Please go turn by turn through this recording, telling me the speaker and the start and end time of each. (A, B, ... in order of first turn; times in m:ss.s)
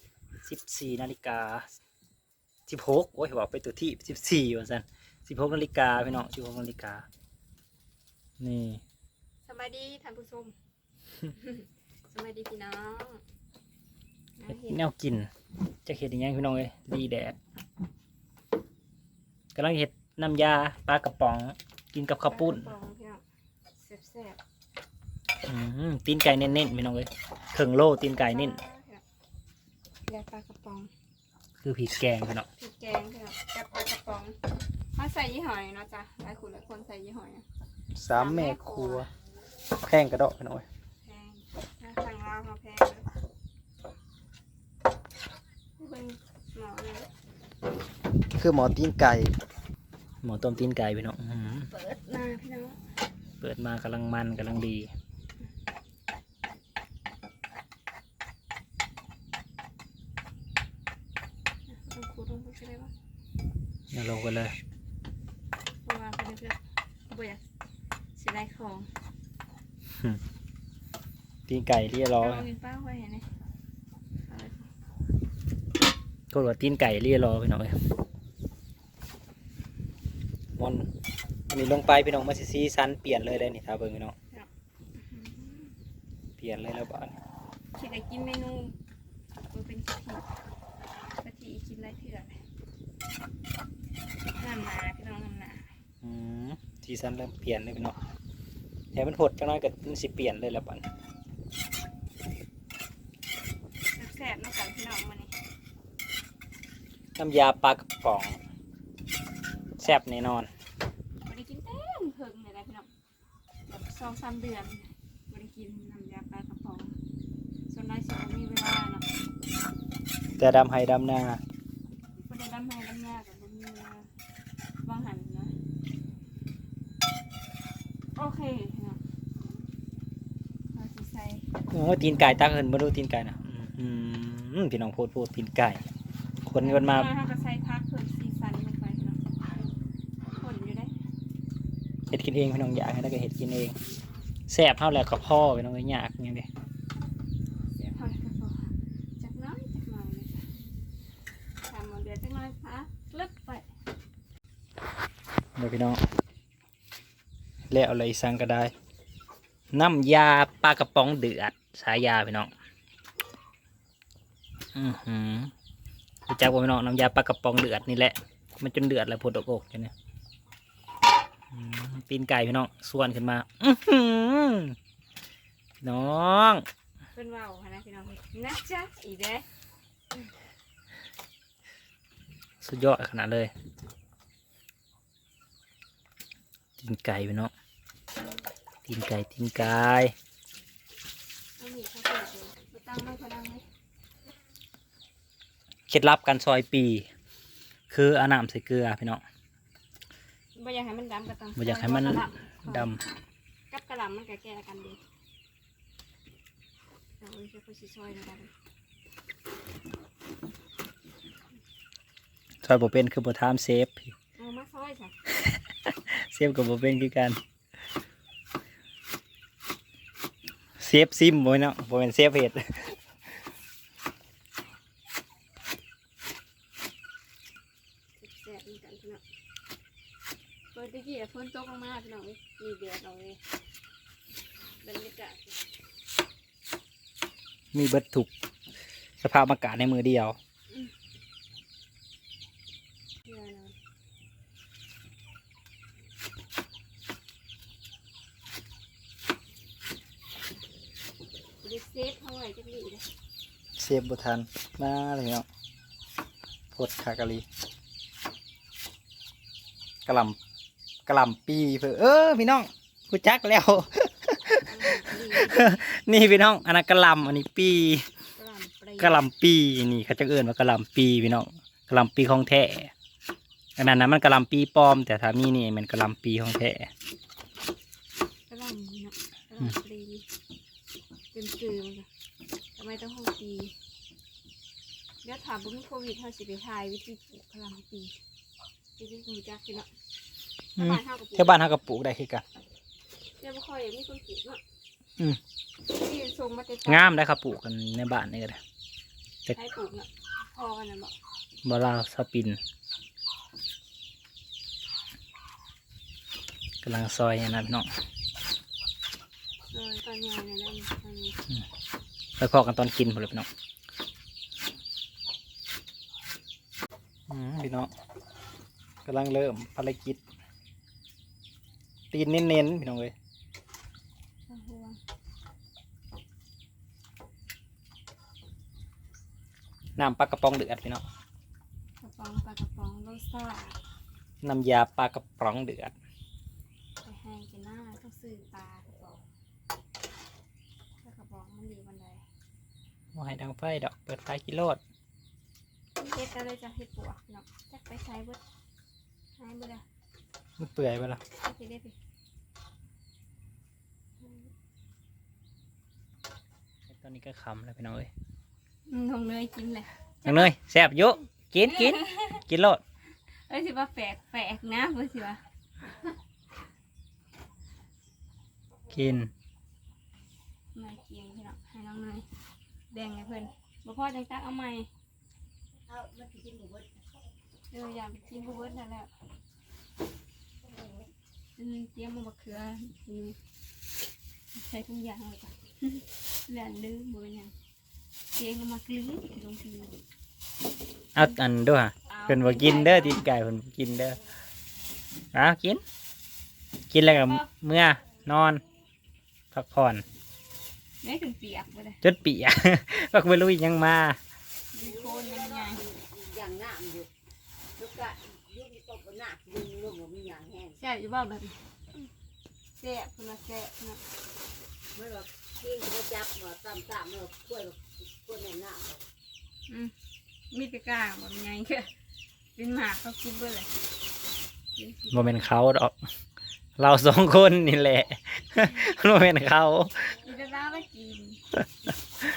0:00.4-0:01.8 A
0:02.7-0:07.1 A
0:08.4-0:08.8 A
0:09.4-0:10.6 B
0:11.3-0:13.2 B
0:14.4-0:14.9 B
0:14.5-0:15.3 A
0:15.8-0:17.4 A
0:19.6-0:22.7 A
0:22.3-0:23.2 B
0:23.8-0:24.4 B
0:25.4-0:28.6 A
0:28.2-0:29.0 B
0:30.1-0:30.9 B
0:31.6-0:32.5 A
0:32.6-0:34.4 B
0:35.0-0:37.4 B
0:38.0-0:39.1 A
0:38.1-0:39.1 B
0:39.8-0:40.7 A
0:41.0-0:43.1 B
0:45.8-0:47.1 B
0:48.4-0:49.3 A
0:50.2-0:51.7 A
0:51.7-0:52.8 B
0:53.4-0:54.9 A
1:01.7-1:02.9 B
1:03.9-1:04.6 A
1:05.8-1:06.6 B
1:07.1-1:07.4 B
1:08.2-1:08.9 B
1:11.5-1:12.5 A
1:12.2-1:13.3 B
1:14.3-1:14.7 B
1:16.3-1:17.8 A
1:20.6-1:20.9 A
1:21.5-1:24.2 A
1:24.3-1:25.7 B
1:26.4-1:27.2 A
1:27.8-1:28.8 B
1:29.5-1:30.3 B
1:31.2-1:32.4 B
1:34.3-1:35.7 B
1:36.0-1:38.0 A
1:38.9-1:40.9 A
1:43.9-1:45.3 B
1:47.2-1:48.4 A
1:49.8-1:50.5 A
1:51.2-1:52.9 B
1:53.7-1:57.0 B
1:57.7-1:59.1 B
2:00.4-2:01.4 A
2:02.2-2:04.1 B
2:04.8-2:05.5 B
2:08.2-2:09.0 B
2:10.7-2:11.4 B
2:11.7-2:15.8 A
2:16.4-2:17.1 A
2:16.6-2:19.2 B
2:20.3-2:20.9 B
2:22.1-2:23.8 A
2:24.5-2:26.5 A
2:27.8-2:30.4 B
2:31.6-2:33.7 B
2:35.6-2:36.0 A
2:37.7-2:38.7 A
2:39.7-2:42.5 A
2:44.8-2:45.5 A
2:46.3-2:49.9 A
2:51.5-2:54.8 A
2:55.8-2:56.6 A
2:57.1-2:59.5 B
3:02.6-3:03.5 A
3:06.8-3:07.5 A
3:08.9-3:10.1 A
3:11.6-3:13.6 B
3:15.9-3:17.1 A
3:17.9-3:19.2 A
3:20.6-3:22.9 B
3:21.6-3:23.0 A
3:23.7-3:25.0 B
3:27.2-3:28.5 B
3:32.6-3:34.1 A
3:34.4-3:35.1 B
3:35.5-3:37.4 A
3:40.8-3:43.0 A
3:48.2-3:49.2 B
3:50.7-3:53.4 B
3:54.8-3:55.5 B
3:57.7-3:58.3 A
3:59.2-4:00.4 A
4:03.3-4:03.7 B
4:11.6-4:13.0 B
4:13.8-4:15.5 A
4:16.7-4:17.5 A
4:20.1-4:20.4 A
4:21.1-4:24.8 A
4:24.6-4:25.8 B
4:25.4-4:28.0 A
4:28.4-4:29.2 B
4:29.0-4:32.9 A
4:33.8-4:36.9 A
4:38.5-4:40.2 B
4:41.3-4:42.1 B
4:42.8-4:43.7 B
4:45.2-4:48.2 B
4:49.0-4:49.9 B
4:50.8-4:51.7 B
4:50.8-4:52.4 A
4:53.4-4:54.6 B
4:55.9-4:57.1 B
4:56.9-4:58.6 A
4:59.5-5:01.2 B
5:01.6-5:02.6 A
5:06.8-5:07.9 A
5:09.7-5:11.4 B
5:12.4-5:13.5 A
5:17.3-5:17.9 A
5:19.0-5:20.2 A
5:22.1-5:23.1 A
5:24.5-5:25.0 B
5:30.0-5:31.0 A
5:32.0-5:33.8 B
5:34.4-5:36.0 A
5:37.0-5:39.2 B
5:41.0-5:42.2 B
5:43.1-5:44.8 A
5:46.0-5:48.4 B
5:49.4-5:49.8 B
5:50.6-5:51.2 A
5:51.4-5:52.0 B
5:54.2-5:54.5 B
5:56.9-5:58.1 A
5:58.9-6:00.5 B
6:00.2-6:02.8 A
6:01.6-6:02.4 B
6:03.5-6:05.4 B
6:08.9-6:09.3 A
6:10.7-6:12.3 B
6:12.9-6:14.9 B
6:15.9-6:16.9 C
6:17.7-6:19.1 B
6:21.6-6:23.4 B
6:24.6-6:27.5 B
6:28.4-6:29.9 B
6:31.2-6:34.2 A
6:32.1-6:33.3 B
6:35.3-6:35.8 A
6:36.9-6:38.6 A
6:37.0-6:37.5 B
6:39.5-6:40.0 A
6:41.0-6:42.0 B
6:42.0-6:44.2 A
6:44.7-6:45.8 B
6:44.8-6:47.1 C
6:47.8-6:50.8 C
6:50.8-6:51.6 B
6:52.8-6:54.0 B
6:55.0-6:59.0 C
7:00.5-7:01.9 B
7:02.6-7:03.7 B
7:04.8-7:05.3 B
7:05.1-7:06.0 A
7:06.8-7:10.2 A
7:10.2-7:11.4 B